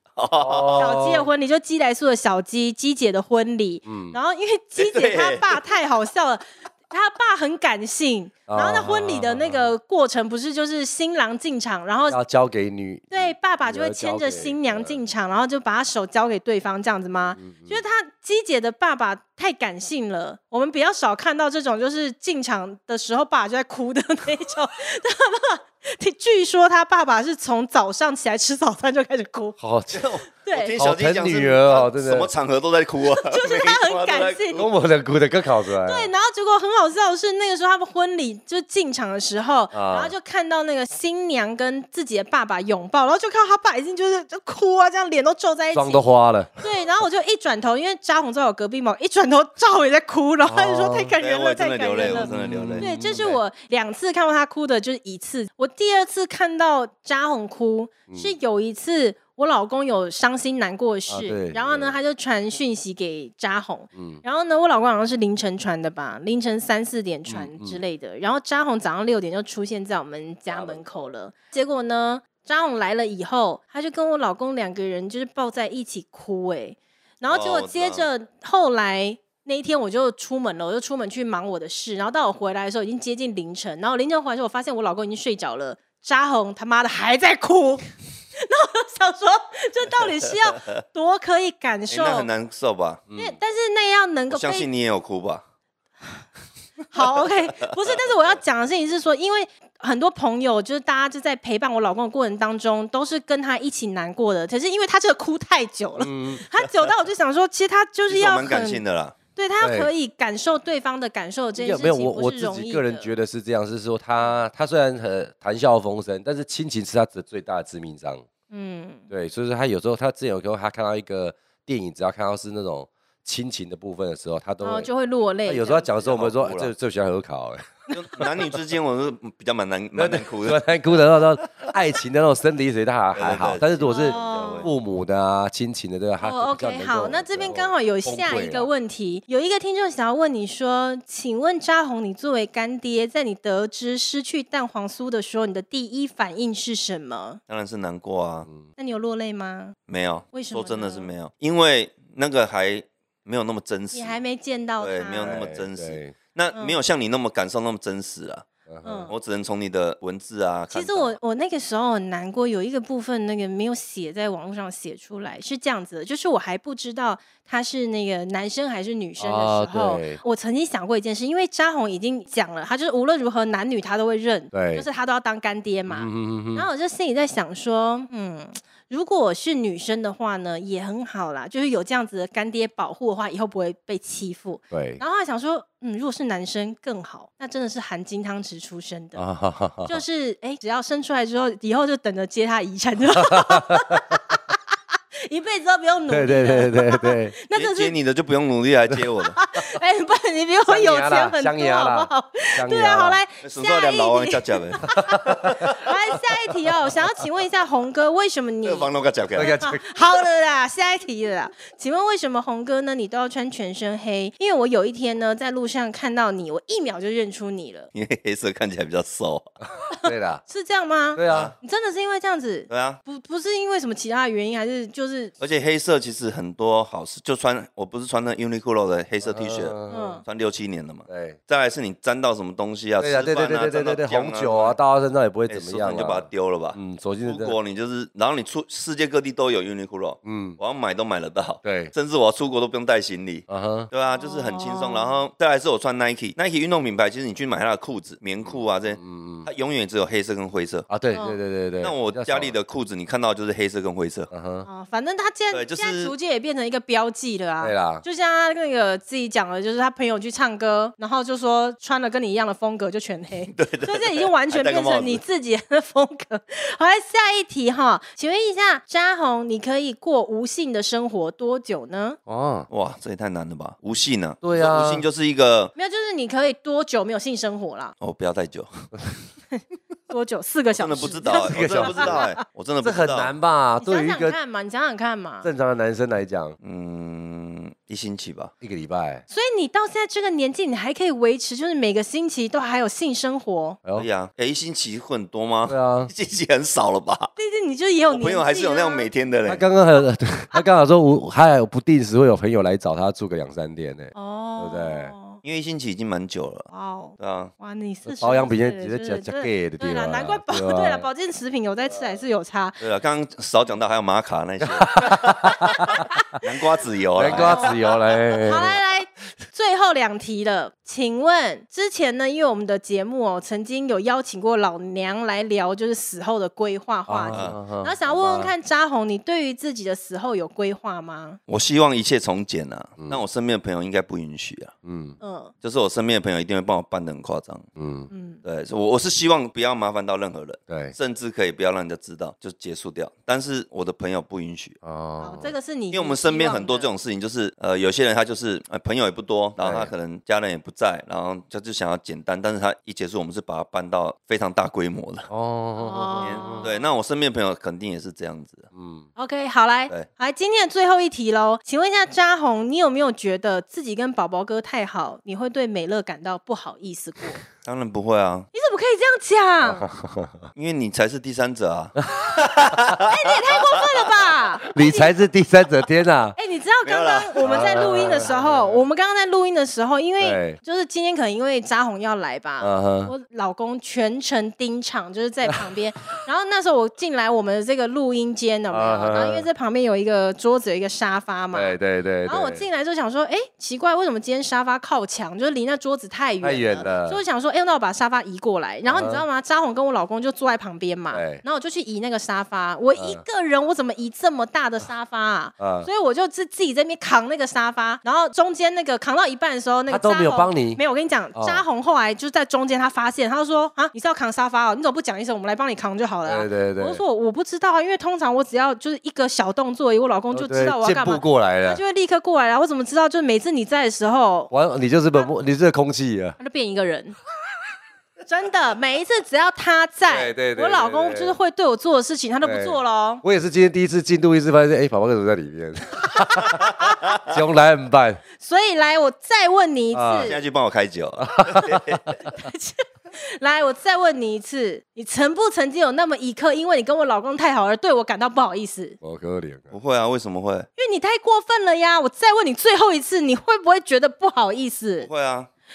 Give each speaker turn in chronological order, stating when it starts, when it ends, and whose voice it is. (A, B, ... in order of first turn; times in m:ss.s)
0:00.2-0:01.0 A
0:00.4-0:01.3 B
0:00.8-0:12.2 C
0:03.8-0:04.2 B
0:04.8-0:05.6 A
0:08.5-0:09.7 B
0:12.1-0:15.0 B
0:13.1-0:29.6 C
0:17.4-0:17.8 B
0:29.6-0:30.1 B
0:29.9-0:34.7 A
0:30.4-0:30.8 C
0:30.8-0:32.3 B
0:33.0-0:34.7 C
0:34.6-0:36.1 B
0:35.8-1:32.3 C
0:39.7-0:40.1 B
0:45.7-0:46.6 B
0:50.4-0:51.1 B
0:51.2-0:52.9 A
0:52.1-0:53.4 B
0:58.1-0:58.3 B
1:01.1-1:01.9 B
1:03.9-1:04.2 B
1:07.3-1:07.8 B
1:10.5-1:11.0 B
1:17.3-1:18.1 A
1:31.9-1:33.0 A
1:33.1-1:33.4 B
1:33.1-1:34.7 C
1:34.3-1:35.4 A
1:36.9-1:48.8 C
1:37.6-1:37.9 A
1:46.0-1:46.4 B
1:48.1-1:49.1 A
1:49.3-1:53.1 C
1:49.6-1:49.9 B
1:51.6-1:58.2 B
1:58.5-1:59.0 C
1:59.1-2:04.9 B
2:04.6-2:06.0 C
2:05.4-2:08.3 B
2:06.0-2:06.7 A
2:07.9-2:10.6 A
2:10.0-2:18.7 B
2:13.1-2:14.7 A
2:13.8-2:14.7 C
2:16.2-2:27.4 C
2:27.5-2:28.5 A
2:28.8-2:29.8 C
2:29.9-2:34.2 A
2:30.3-2:31.1 C
2:33.9-2:35.4 C
2:34.8-2:38.4 A
2:35.2-2:36.2 B
2:38.7-2:39.1 B
2:38.8-2:39.1 C
2:39.1-2:41.2 A
2:40.7-3:09.2 C
2:49.2-2:50.2 B
2:54.5-2:54.8 B
2:55.9-2:56.7 B
3:04.7-3:05.0 B
3:09.2-3:10.0 B
3:09.8-3:14.6 C
3:13.2-3:14.2 B
3:15.2-3:17.9 C
3:16.1-3:17.3 B
3:17.5-3:19.4 A
3:19.4-3:28.9 C
3:20.7-3:23.2 B
3:23.4-3:25.9 A
3:24.9-3:25.6 B
3:28.6-3:29.6 A
3:29.3-3:29.8 B
3:29.6-3:37.9 C
3:37.9-3:39.5 A
3:40.0-3:45.3 C
3:40.0-3:40.4 B
3:41.1-3:41.5 B
3:41.2-3:41.5 A
3:42.7-3:43.0 A
3:45.4-3:54.8 A
3:49.2-3:50.2 B
3:49.9-3:50.2 C
3:51.1-3:51.4 B
3:53.0-3:57.5 B
3:55.5-4:10.9 A
4:00.2-4:00.6 B
4:01.6-4:01.9 B
4:03.5-4:03.9 B
4:04.1-4:05.2 C
4:08.4-4:09.5 B
4:10.9-4:12.5 B
4:11.1-4:11.4 C
4:11.8-4:14.3 A
4:14.3-4:14.7 B
4:14.6-4:32.2 C
4:15.5-4:16.1 A
4:17.6-4:18.0 B
4:23.5-4:25.2 A
4:32.3-4:32.7 B
4:32.7-4:35.7 A
4:34.4-4:35.0 B
4:35.8-4:37.9 C
4:38.0-4:38.7 A
4:40.1-4:42.4 C
4:40.7-4:43.3 A
4:41.3-4:42.3 B
4:42.8-4:44.4 B
4:43.8-4:45.5 C
4:45.4-4:46.6 B
4:46.6-4:48.5 A
4:48.6-4:49.2 B
4:49.3-4:53.8 C
4:54.0-4:57.3 A
4:55.7-4:56.1 B
4:57.4-4:59.1 C
4:58.1-4:59.6 A
4:59.4-5:05.1 B
5:04.1-5:05.4 C
5:05.4-5:07.5 A
5:06.7-5:12.8 C
5:08.0-5:11.1 B
5:12.8-5:15.5 A
5:14.6-5:16.1 B
5:16.4-5:17.8 A
5:17.2-5:18.8 B
5:17.3-5:17.9 C
5:18.4-5:31.4 C
5:27.1-5:28.5 B
5:31.5-5:34.7 A
5:34.8-5:35.2 B
5:35.2-5:35.5 C
5:35.6-5:37.7 A
5:37.8-5:38.1 B
5:38.1-5:38.4 C
5:38.4-5:44.8 A
5:40.7-5:40.9 B
5:44.8-5:45.5 B
5:45.2-5:46.9 C
5:45.9-5:55.3 A
5:49.6-5:49.9 B
5:55.3-5:56.7 B
5:55.8-5:56.7 C
5:56.2-5:58.7 A
5:58.7-5:59.1 B
5:59.2-6:07.4 C
6:07.6-6:08.5 A
6:08.5-6:09.9 C
6:09.6-6:10.4 B
6:10.5-6:13.1 A
6:12.1-6:12.7 B
6:12.9-6:15.2 C
6:14.7-6:16.4 B
6:16.3-7:04.5 C
6:16.8-6:18.3 A
6:17.4-6:18.7 B
6:20.2-6:20.6 B
6:22.6-6:23.1 B
6:28.7-6:29.5 B
6:31.5-6:32.6 B
6:36.4-6:37.2 B
6:38.8-6:39.2 B
6:41.1-6:41.4 B
6:42.9-6:43.2 B
6:45.6-6:45.9 B
6:49.9-6:50.8 B
6:51.3-6:51.6 B
6:56.2-6:57.0 B
7:00.3-7:01.8 B
7:04.5-7:06.4 B
7:06.4-7:07.2 C
7:08.3-7:13.2 C
7:10.1-7:11.4 B
7:12.4-7:18.2 B
7:16.5-7:17.0 C
7:18.4-7:20.4 C
7:19.9-7:20.4 B
7:20.2-7:22.0 A
7:21.2-7:22.2 B
7:22.2-7:29.0 C
7:29.0-7:29.7 B
7:29.7-7:30.7 A
7:30.8-7:35.1 C
7:35.0-7:35.5 A